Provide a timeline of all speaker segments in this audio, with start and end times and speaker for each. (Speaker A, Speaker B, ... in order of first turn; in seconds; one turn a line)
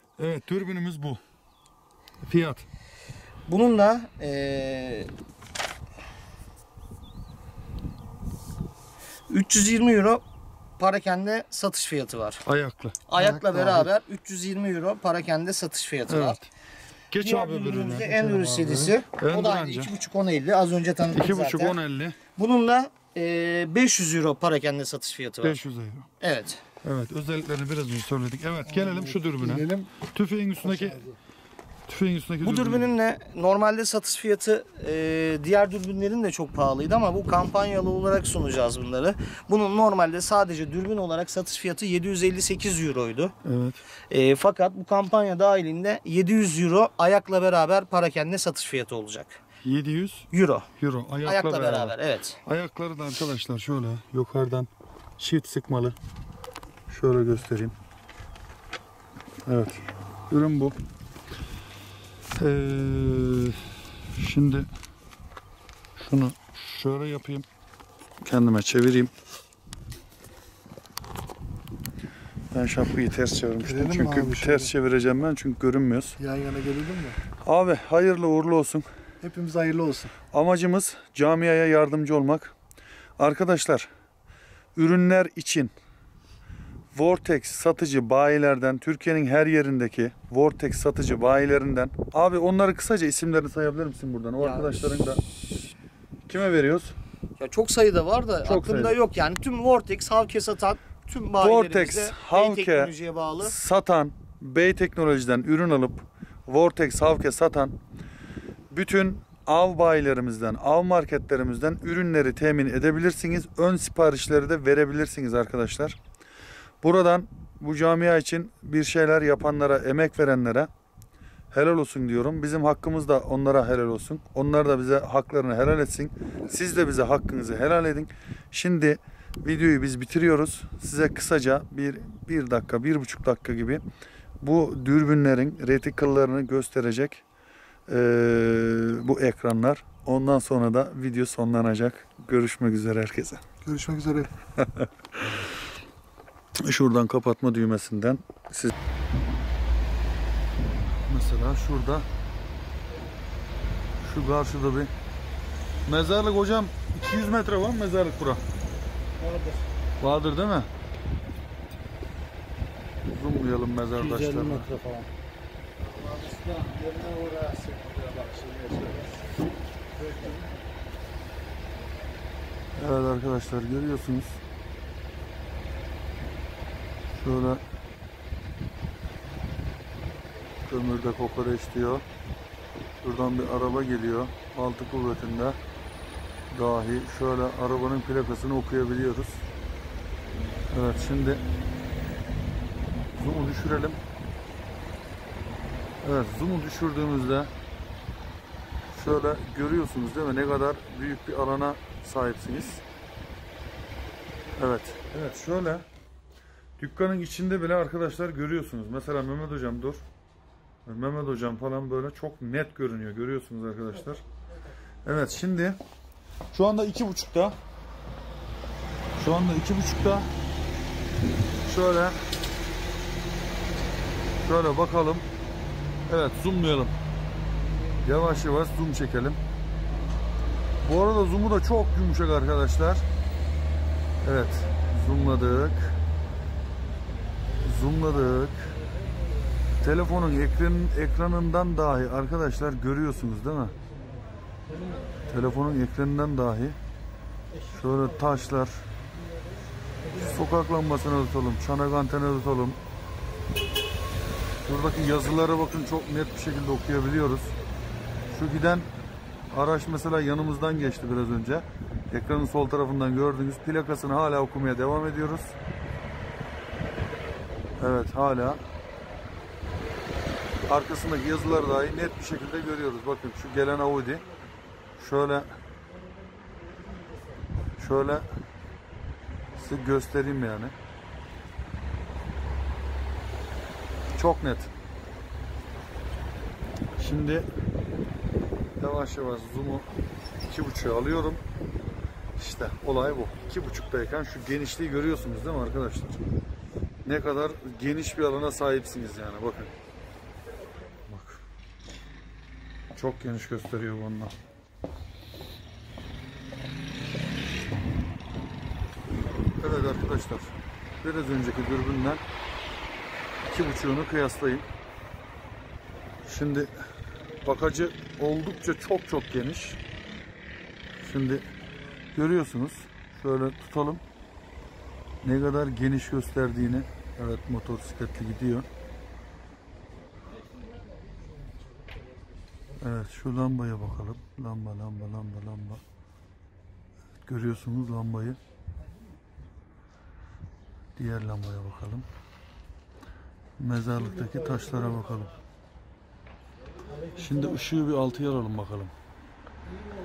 Speaker A: 0.2-1.2
Speaker A: 2.2-2.6
Speaker B: 3.5-5.1
Speaker B: 9.3-10.2
Speaker B: 10.8-12.4
Speaker A: 12.5-13.0
Speaker B: 13.1-16.4
Speaker C: 13.1-13.9
Speaker A: 16.1-16.5
Speaker A: 17.1-18.1
Speaker B: 17.2-21.8
Speaker C: 18.0-19.0
Speaker A: 19.2-19.9
Speaker A: 21.1-22.2
Speaker B: 22.4-25.6
Speaker A: 25.4-26.1
Speaker B: 26.2-26.6
Speaker A: 26.8-31.0
Speaker C: 28.7-29.9
Speaker C: 30.6-31.2
Speaker A: 31.9-32.9
Speaker B: 32.4-43.3
Speaker A: 43.4-43.8
Speaker B: 44.1-49.4
Speaker A: 49.6-56.0
Speaker B: 50.3-50.7
Speaker B: 51.2-52.4
Speaker A: 56.9-57.8
Speaker A: 59.5-60.8
Speaker A: 62.4-64.7
Speaker A: 66.0-67.5
Speaker A: 68.2-69.1
Speaker A: 72.5-76.2
Speaker C: 73.6-74.7
Speaker C: 76.2-77.2
Speaker A: 77.5-78.9
Speaker C: 79.2-80.1
Speaker A: 80.3-82.5
Speaker A: 83.2-83.9
Speaker A: 84.8-85.7
Speaker A: 86.9-95.2
Speaker B: 94.4-95.0
Speaker A: 96.3-97.0
Speaker B: 97.4-103.5
Speaker A: 98.4-99.0
Speaker A: 101.4-107.8
Speaker A: 108.7-116.0
Speaker A: 116.8-120.7
Speaker A: 121.5-133.8
Speaker A: 134.4-137.2
Speaker A: 137.9-143.4
Speaker C: 143.6-144.3
Speaker A: 144.6-145.3
Speaker A: 146.6-148.7
Speaker A: 151.1-152.1
Speaker A: 154.0-154.9
Speaker A: 155.9-158.4
Speaker C: 159.2-159.7
Speaker A: 160.0-160.7
Speaker A: 163.1-164.7
Speaker C: 164.0-165.1
Speaker C: 165.8-169.2
Speaker C: 169.9-170.5
Speaker A: 172.8-174.4
Speaker A: 177.2-177.6
Speaker A: 180.7-182.0
Speaker A: 183.0-185.6
Speaker A: 186.5-189.4
Speaker A: 190.7-191.4
Speaker A: 193.2-194.0
Speaker A: 196.0-197.5
Speaker A: 198.9-202.8
Speaker A: 204.6-205.9
Speaker A: 206.8-210.0
Speaker A: 210.8-214.2
Speaker A: 215.1-215.8
Speaker A: 216.5-217.6
Speaker A: 219.2-220.3
Speaker A: 221.6-222.2
Speaker A: 224.4-225.3
Speaker A: 226.1-226.9
Speaker A: 228.0-229.4
Speaker A: 230.8-233.1
Speaker A: 234.2-236.0
Speaker A: 237.6-238.8
Speaker A: 239.8-243.8
Speaker A: 245.3-246.8
Speaker A: 247.7-248.8
Speaker A: 250.1-252.8
Speaker A: 254.6-257.6
Speaker A: 258.3-258.9
Speaker A: 259.5-265.5
Speaker A: 267.8-268.6
Speaker A: 270.6-274.2
Speaker A: 275.0-275.5
Speaker A: 277.8-278.3
Speaker A: 279.5-280.7
Speaker A: 284.1-284.7
Speaker A: 287.0-287.5
Speaker A: 288.8-289.9
Speaker A: 290.4-291.4
Speaker A: 292.4-296.3
Speaker A: 297.1-299.7
Speaker A: 301.1-301.4
Speaker A: 302.9-304.3
Speaker A: 309.6-312.2
Speaker A: 313.5-314.7
Speaker A: 316.2-316.7
Speaker A: 317.4-319.8
Speaker A: 321.0-321.4
Speaker A: 322.1-324.0
Speaker A: 325.2-328.7
Speaker A: 332.8-335.8
Speaker A: 337.3-338.4
Speaker A: 341.0-342.1
Speaker A: 343.6-345.3
Speaker A: 347.2-348.9